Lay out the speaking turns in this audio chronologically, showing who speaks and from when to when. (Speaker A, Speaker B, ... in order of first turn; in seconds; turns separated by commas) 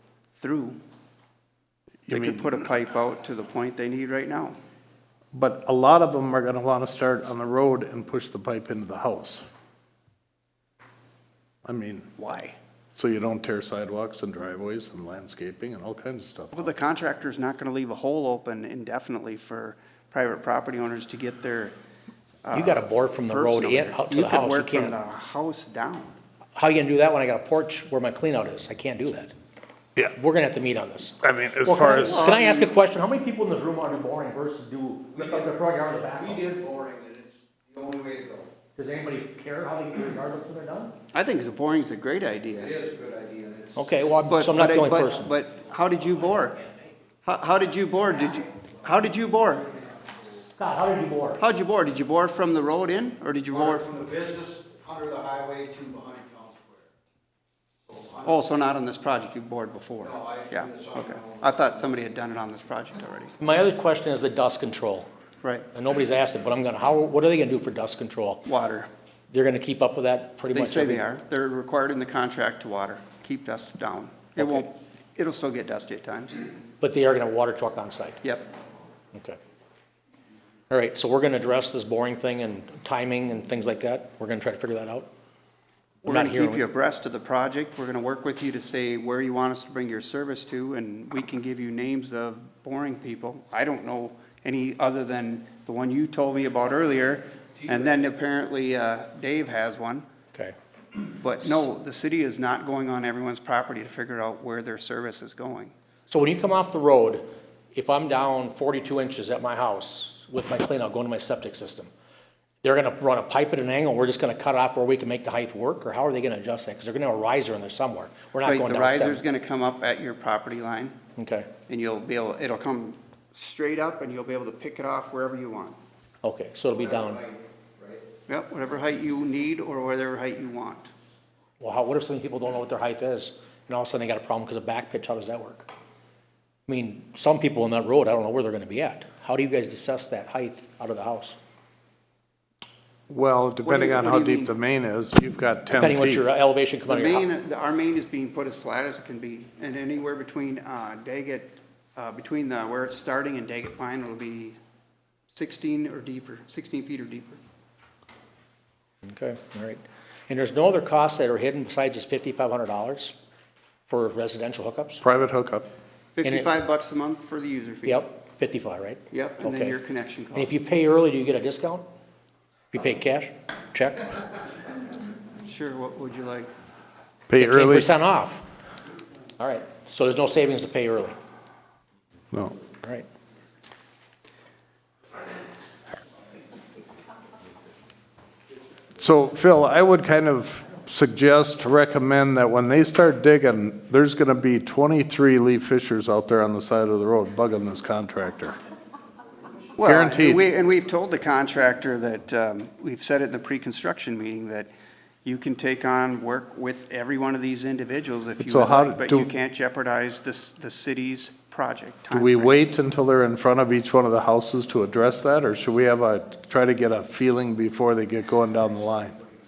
Speaker A: 0.3-0.8, Speaker B: 2.1-2.4, Speaker A: 2.1-4.6, Speaker B: 5.3-9.4, Speaker B: 11.6-12.1, Speaker A: 12.2-12.6, Speaker B: 12.9-16.7, Speaker A: 16.5-21.7, Speaker A: 22.4-26.1, Speaker C: 22.5-24.9, Speaker C: 26.6-29.3, Speaker C: 30.1-36.6, Speaker B: 31.2-32.3, Speaker A: 31.9-32.7, Speaker D: 36.4-38.5, Speaker C: 38.8-40.9, Speaker A: 41.1-42.8, Speaker D: 42.8-43.8, Speaker C: 43.8-45.2, Speaker A: 44.2-46.6, Speaker A: 47.2-49.7, Speaker C: 50.5-51.4, Speaker A: 51.4-54.0, Speaker D: 53.9-56.8, Speaker A: 58.2-63.3, Speaker D: 60.2-61.4, Speaker C: 63.4-65.1, Speaker A: 65.4-65.7, Speaker C: 65.7-68.4, Speaker A: 68.4-68.9, Speaker C: 69.3-71.0, Speaker A: 70.5-76.5, Speaker C: 74.4-74.7, Speaker C: 76.8-78.2, Speaker A: 78.2-78.5, Speaker C: 79.1-79.4, Speaker C: 80.7-85.1, Speaker A: 86.0-100.0, Speaker C: 86.0-86.6, Speaker A: 101.0-105.7, Speaker C: 106.1-111.9, Speaker C: 112.6-119.2, Speaker A: 118.4-121.0, Speaker C: 121.2-121.5, Speaker A: 121.7-125.8, Speaker C: 126.2-127.3, Speaker A: 128.3-130.9, Speaker C: 131.6-135.7, Speaker C: 136.7-141.3, Speaker B: 143.1-146.2, Speaker A: 143.6-144.5, Speaker C: 145.7-147.3, Speaker A: 146.9-154.6, Speaker A: 155.3-157.4, Speaker C: 159.1-163.1, Speaker C: 163.9-165.0, Speaker B: 165.0-165.7, Speaker A: 166.2-168.0, Speaker C: 167.8-169.7, Speaker A: 169.1-170.5, Speaker C: 170.3-171.8, Speaker C: 172.7-174.2, Speaker A: 175.4-176.5, Speaker B: 177.3-177.9, Speaker C: 177.4-178.4, Speaker C: 179.4-181.2, Speaker B: 189.0-198.6, Speaker A: 199.8-204.7, Speaker B: 199.8-200.4, Speaker A: 205.2-212.6, Speaker B: 208.4-209.3, Speaker B: 212.1-219.2